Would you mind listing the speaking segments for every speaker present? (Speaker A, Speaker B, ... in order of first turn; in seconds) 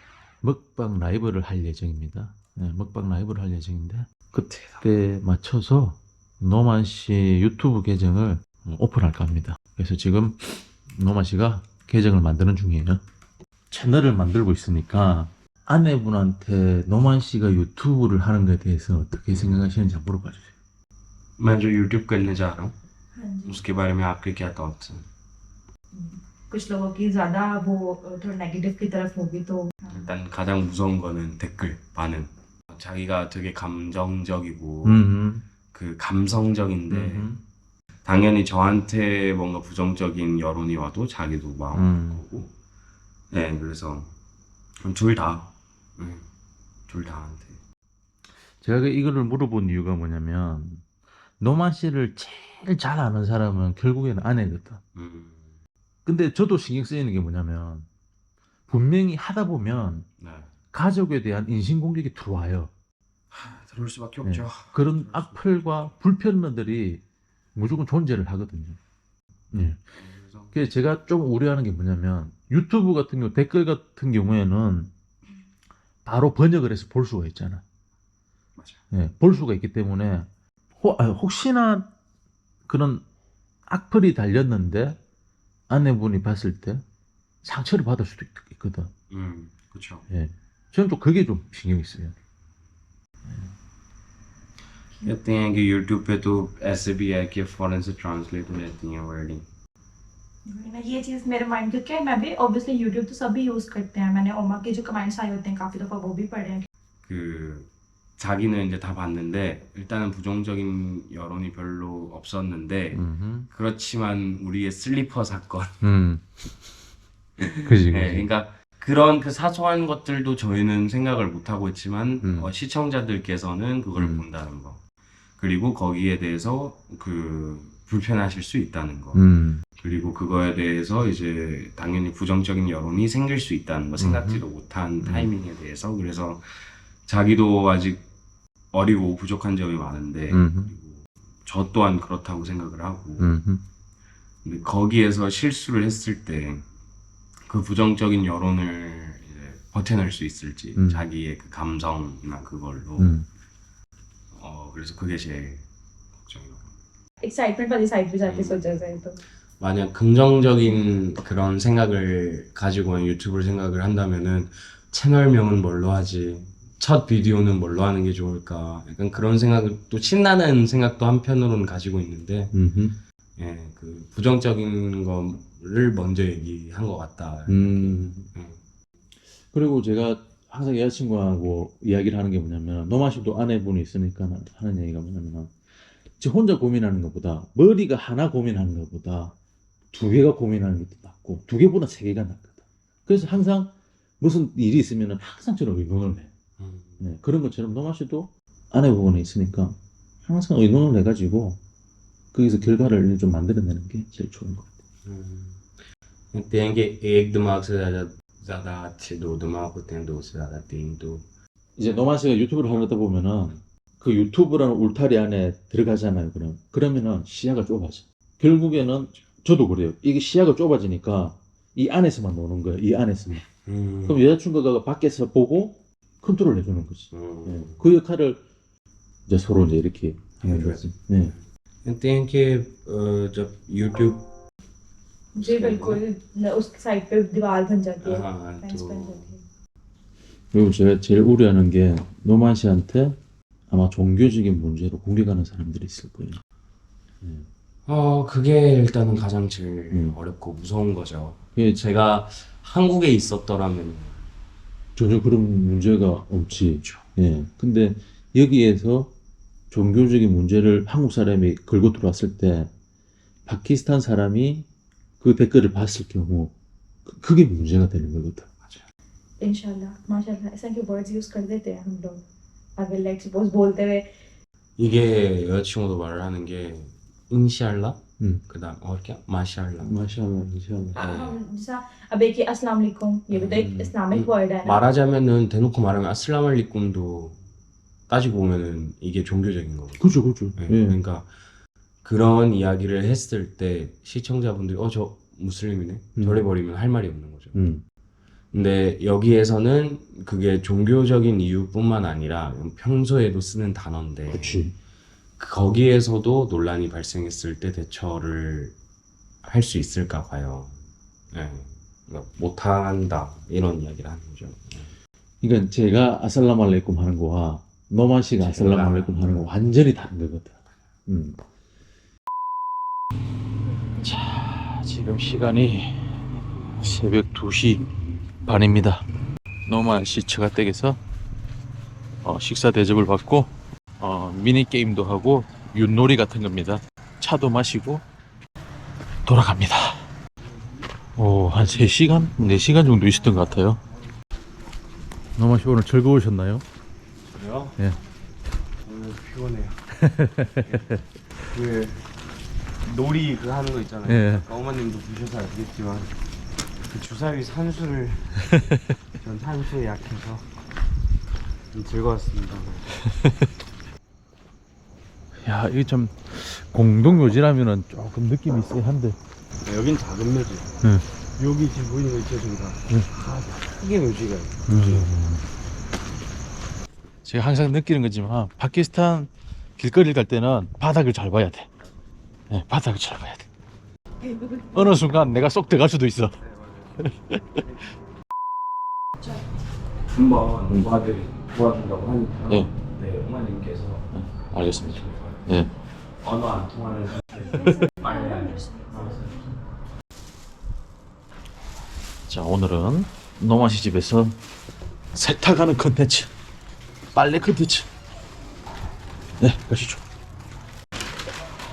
Speaker A: 0.4-13.0, 13.7-20.5, 34.8-35.5, 36.9-37.4, 41.7-42.2, 48.6-50.8, 51.4-54.8, 56.1-57.9, 58.7-60.1, 60.7-62.7, 64.2-67.0, 67.5-68.8, 69.5-69.8, 70.5-74.9, 76.0-77.6, 78.9-81.9, 82.7-83.0, 83.7-85.0, 85.7-86.8, 87.4-88.9, 90.1-92.2, 93.3-93.5, 112.9-113.5, 115.8-116.2, 117.7-118.3, 122.2-122.5, 124.0-124.2, 129.1-129.6, 134.0-134.4, 135.0-135.3, 140.3-140.7, 143.2-143.6, 150.8-151.1, 153.0-153.3, 172.5-173.0, 177.5-178.3, 179.5-185.5, 186.2-189.3, 189.9-196.3, 197.0-201.6, 202.3-204.7, 211.8-223.5, 224.1-228.4, 229.3-231.3, 240.5-243.2, 243.7-246.4, 247.2-247.5, 249.9-250.2, 251.6-251.8, 255.0-259.1, 259.7-262.7, 263.5-264.7, 265.2-266.5, 267.1-268.5, 279.8-281.1, 290.0-291.0, 296.2-296.4, 297.5-297.8, 304.3-304.8, 315.4-320.6, 321.1-321.4, 324.0-326.1, 326.8-327.9, 328.4-329.0, 329.7-331.0, 332.2-338.0, 339.3-340.1, 341.2-343.8, 345.4-346.6, 350.0-351.0, 354.1-354.5, 358.5-358.8, 363.1-363.3, 365.4-369.2, 374.7-375.4, 377.2-381.7, 382.5-383.5, 384.7-386.4, 387.0-387.6, 394.1-395.7, 397.4-397.9, 402.3-404.4, 405.1-406.3, 407.1-407.9, 409.4-410.0
Speaker B: 4.5-4.8, 21.4-22.8, 23.5-25.1, 29.9-35.1, 35.7-37.3, 38.0-42.5, 43.3-44.1, 44.8-46.3, 46.9-47.6, 55.0-55.5, 60.2-60.5, 63.3-65.9, 70.0-70.5, 78.6-78.8, 89.1-90.0, 95.0-99.5, 107.0-115.8, 117.4-124.8, 125.4-129.2, 129.8-138.1, 138.7-143.4, 144.4-146.7, 147.5-153.2, 154.3-155.7, 156.2-156.7, 158.2-159.0, 159.6-172.6, 173.4-178.6, 196.6-197.0, 205.0-205.6, 206.3-211.2, 223.7-224.2, 227.1-227.8, 230.4-234.3, 235.4-236.0, 238.0-239.3, 247.9-254.2, 256.6-257.1, 274.8-280.0, 281.0-281.4, 283.3-287.4, 288.1-291.3, 292.0-297.6, 298.5-304.6, 305.4-308.8, 309.4-310.8, 311.3-314.9, 318.4-319.5, 347.3-347.8, 348.8-349.8, 351.5-352.0, 352.8-356.1, 356.9-358.3, 359.2-360.4, 361.7-362.9, 369.6-370.7, 371.4-375.1, 390.1-395.4, 396.2-399.5
Speaker C: 23.2-23.6, 25.9-30.1, 100.5-106.7, 157.2-159.2, 235.3-239.4, 269.4-272.2, 272.8-274.1, 281.0-284.9, 397.5-398.9